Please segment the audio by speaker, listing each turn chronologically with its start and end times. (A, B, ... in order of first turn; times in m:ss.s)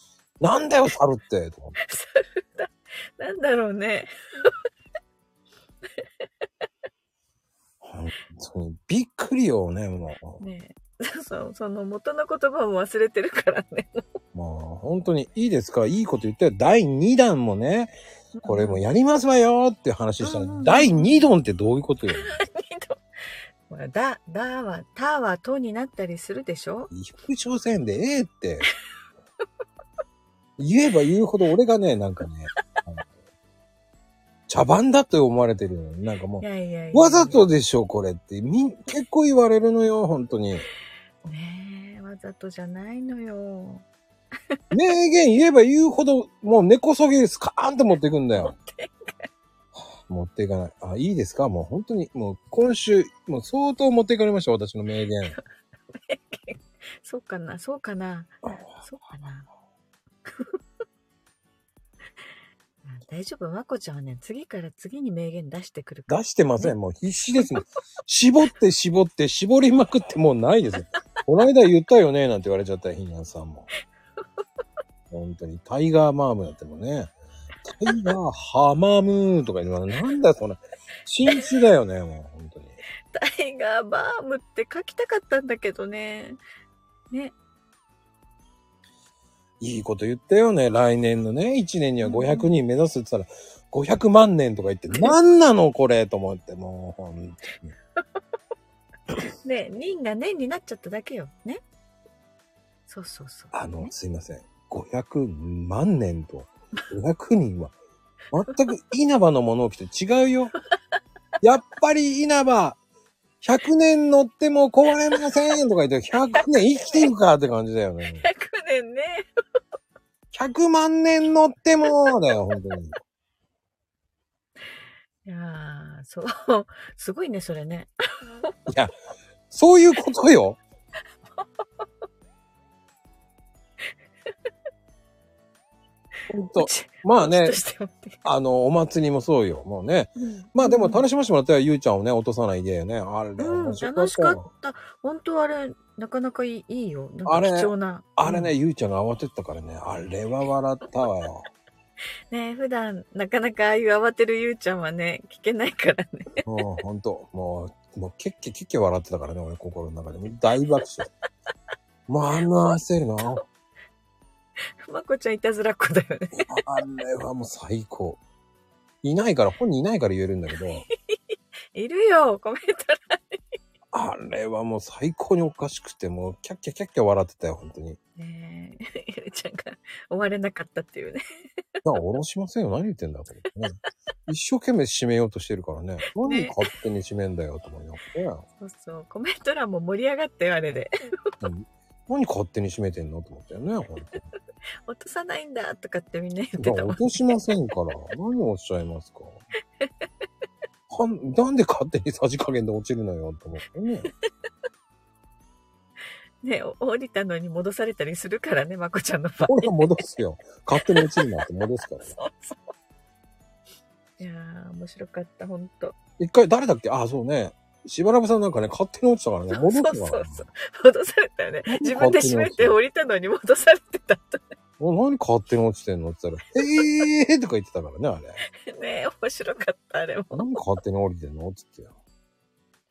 0:00.4-0:01.8 A
0:01.8-0:04.5 B
0:07.8-0:10.4 A
0:10.4-0:14.1 B
0:14.3-0:17.9 A
0:18.4-0:18.8 B
0:18.4-0:22.3 A
0:20.2-0:21.3 B
0:22.2-0:23.0 B
0:23.7-0:26.9 B
0:26.9-0:28.7 A
0:30.6-0:33.0 A
0:34.5-0:40.7 A
0:36.4-0:37.4 B
0:41.2-0:43.8 B
0:44.7-0:48.5 A
0:48.4-0:49.3 B
0:49.9-0:55.4 A
0:55.9-0:59.5 B
1:00.3-1:00.6 B
1:02.8-1:06.8 B
1:06.1-1:13.7 A
1:15.1-1:17.1 A
1:17.7-1:22.8 A
1:23.1-1:26.4 B
1:29.6-1:37.7 A
1:32.0-1:32.5 B
1:39.4-1:41.6 B
1:42.9-1:43.9 B
1:43.5-1:47.8 A
1:48.3-1:50.5 A
1:51.4-1:52.8 A
1:53.4-1:58.2 A
1:58.1-1:59.2 B
2:00.3-2:02.9 A
2:05.2-2:08.5 B
2:09.5-2:10.6 A
2:16.3-2:17.6 A
2:16.6-2:18.2 B
2:18.2-2:24.4 A
2:20.2-2:21.1 B
2:23.4-2:28.5 B
2:27.2-2:31.4 A
2:32.3-2:36.4 B
2:36.4-2:41.1 A
2:42.1-2:43.4 A
2:44.8-2:46.5 B
2:46.4-2:48.2 A
2:49.0-2:50.9 A
2:51.7-2:53.6 B
2:53.9-2:58.0 A
2:58.2-3:01.2 B
3:01.8-3:03.8 A
3:04.3-3:08.4 A
3:06.2-3:06.6 B
3:08.6-3:11.3 B
3:11.4-3:14.2 A
3:14.9-3:17.4 B
3:16.6-3:19.4 A
3:20.9-3:24.1 A
3:26.4-3:30.1 B
3:29.5-3:32.1 A
3:30.8-3:31.3 B
3:32.0-3:32.6 B
3:34.2-3:36.0 B
3:36.2-3:40.4 A
3:39.5-3:44.4 B
3:41.7-3:42.8 A
3:44.8-3:48.4 A
3:48.6-3:50.4 B
3:50.3-3:51.9 A